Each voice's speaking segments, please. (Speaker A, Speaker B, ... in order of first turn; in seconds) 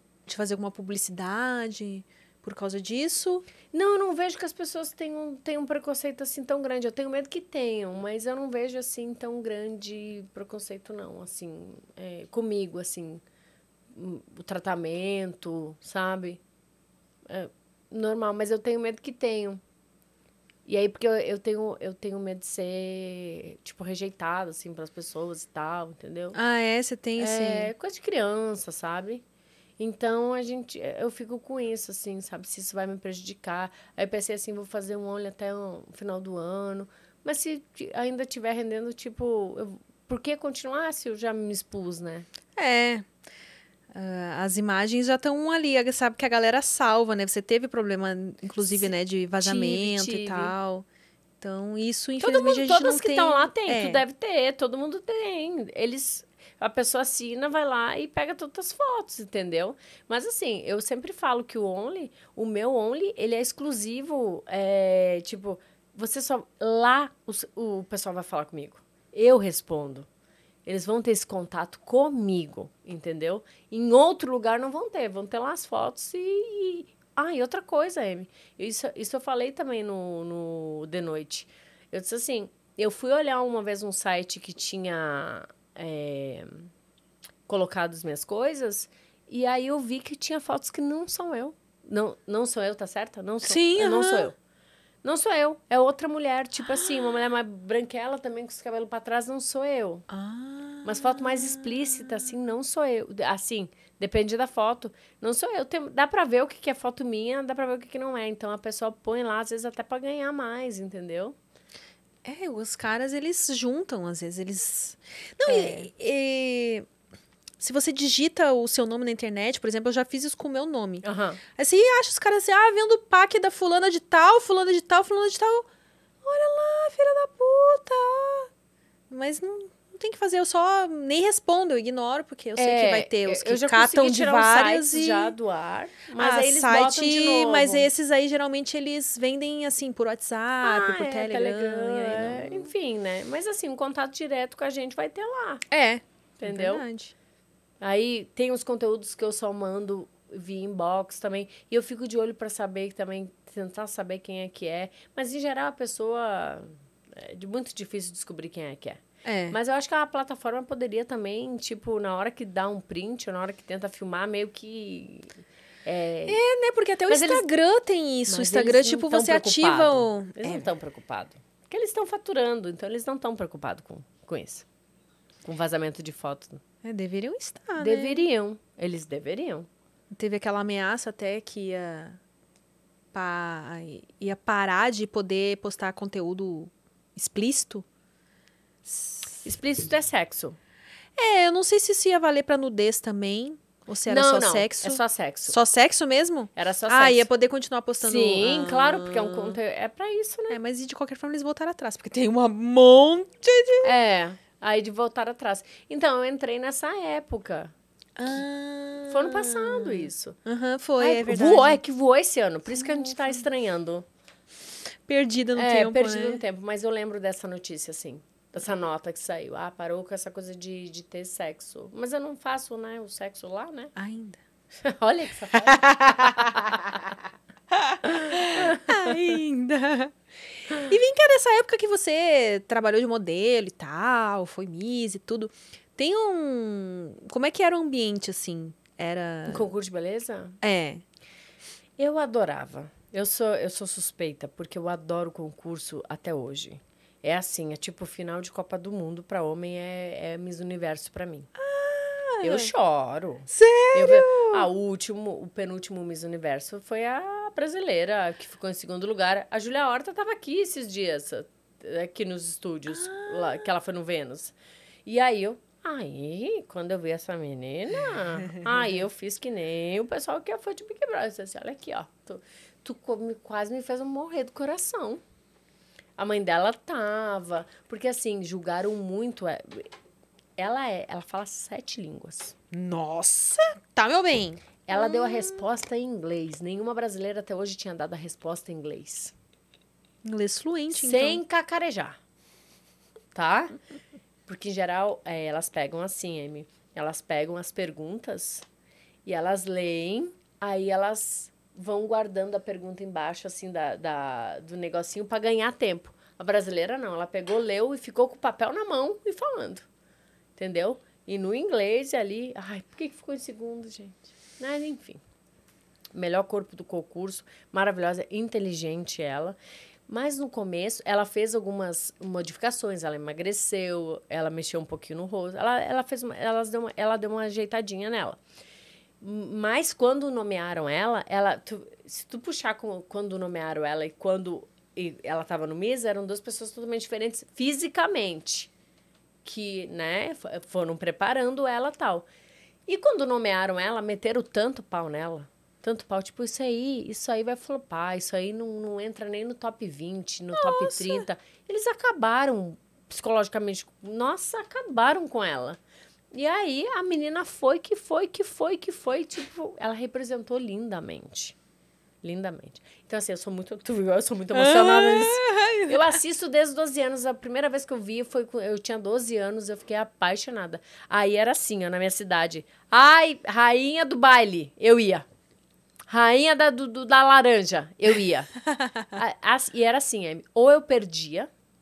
Speaker A: 0.2-3.5, 26.3-27.7, 42.6-43.1, 43.9-50.9, 51.4-54.0, 93.4-94.3, 100.1-102.3, 112.2-116.8, 117.6-125.7, 126.2-128.5, 129.1-135.3, 136.2-142.7, 145.7-147.1, 159.2-159.6, 166.2-170.7, 176.8-178.3, 180.1-182.2, 183.1-187.8, 188.8-189.4, 191.2-199.6, 200.5-203.9, 208.2-211.8, 212.7-213.4, 215.1-216.4, 223.9-224.4, 225.5-226.7, 227.7-230.1, 230.7-239.7, 240.6-241.0, 251.6-252.7, 253.5-254.7, 262.9-263.7, 282.7-285.6, 290.2-291.4, 350.5-351.2, 364.5-366.2, 378.8-379.0
Speaker B: 3.7-13.2, 13.9-16.4, 17.3-19.6, 20.6-26.4, 27.2-29.2, 29.8-42.3, 48.6-50.5, 52.2-70.1, 70.7-86.7, 87.5-94.3, 95.0-100.0, 100.8-111.3, 115.4-115.9, 121.0-121.4, 132.6-137.9, 140.6-145.6, 146.4-146.8, 147.8-166.4, 167.1-167.5, 168.3-174.7, 175.4-176.6, 177.8-179.7, 189.4-190.6, 194.1-195.6, 196.6-197.3, 198.0-200.6, 203.8-207.7, 209.1-210.4, 211.0-214.0, 215.5-223.9, 224.8-227.0, 228.1-229.1, 239.5-240.6, 242.0-251.5, 252.4-264.5, 265.1-275.2, 276.2-279.9, 280.6-282.5, 284.9-289.3, 290.9-292.2, 293.3-293.8, 294.4-298.6, 299.2-309.9, 310.6-315.2, 316.1-319.6, 320.1-328.4, 329.2-338.7, 339.4-342.3, 342.9-355.8, 356.3-361.6, 362.2-375.2, 376.1-378.5, 379.1-381.5